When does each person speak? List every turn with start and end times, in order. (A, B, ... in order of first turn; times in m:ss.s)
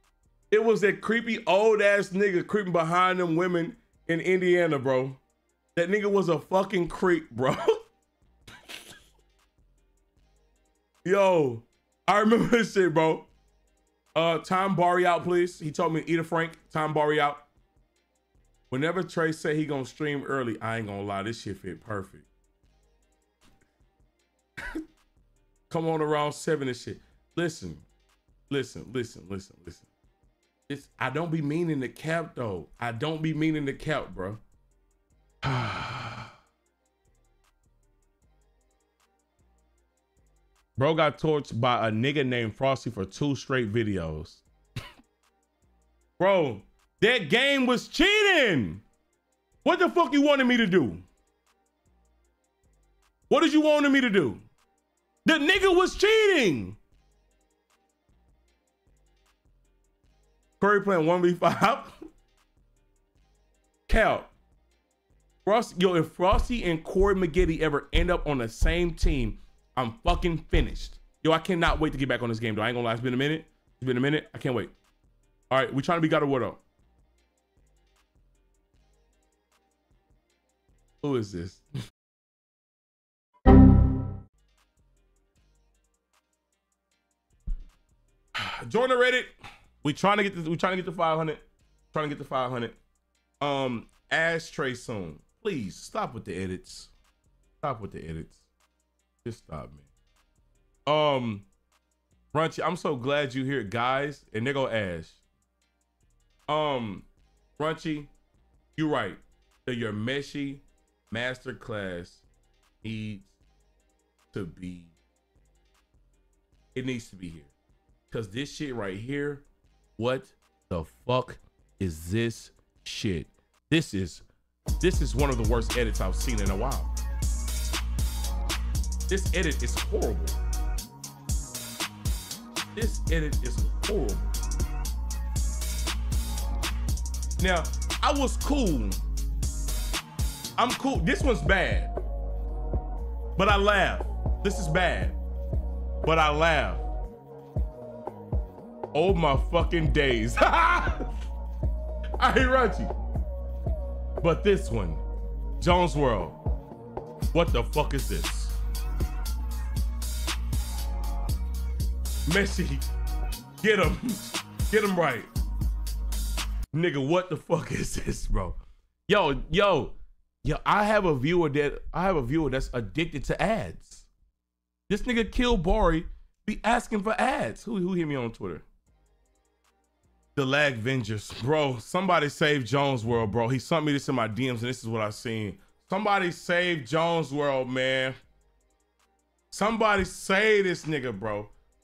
0:00.5-0:05.2 A
0:05.7-0:07.8 A
0:11.0-0:13.2 A
0:14.1-0:17.4 A
0:18.7-0:22.2 A
0:25.7-0:27.8 A
0:28.5-0:29.9 A
0:30.7-0:34.4 A
0:35.4-0:36.3 A
0:40.8-0:44.4 A
0:46.2-0:48.8 A
0:49.6-0:51.0 A
0:53.3-0:54.4 A
0:55.2-0:56.8 A
1:00.6-1:01.9 A
1:03.9-1:04.3 A
1:05.4-1:14.7 A
1:15.5-1:16.6 A
1:21.0-1:21.6 A
1:28.4-1:29.3 A
1:29.8-1:31.4 A
1:31.9-1:32.8 A
1:33.4-1:36.9 A
1:37.6-1:38.4 A
1:39.2-1:39.8 A
1:40.9-1:41.4 A
1:42.3-1:45.2 A
1:46.5-1:47.0 A
1:47.6-1:48.1 A
1:48.8-1:52.2 A
1:52.8-1:53.3 A
1:54.3-1:54.9 A
1:56.7-1:57.5 A
1:58.1-1:59.4 A
2:00.0-2:04.2 A
2:04.8-2:06.9 A
2:09.1-2:10.4 A
2:12.7-2:14.2 A
2:17.4-2:19.0 A
2:20.6-2:21.9 A
2:23.4-2:25.2 A
2:26.0-2:26.8 A
2:28.9-2:31.0 A
2:32.2-2:32.9 A
2:34.2-2:35.0 A
2:35.6-2:36.4 A
2:37.3-2:38.5 A
2:42.3-2:42.8 A
2:43.6-2:45.3 A
2:46.7-2:54.0 A
2:54.9-2:58.6 A
3:00.4-3:08.2 A
3:09.5-3:11.5 A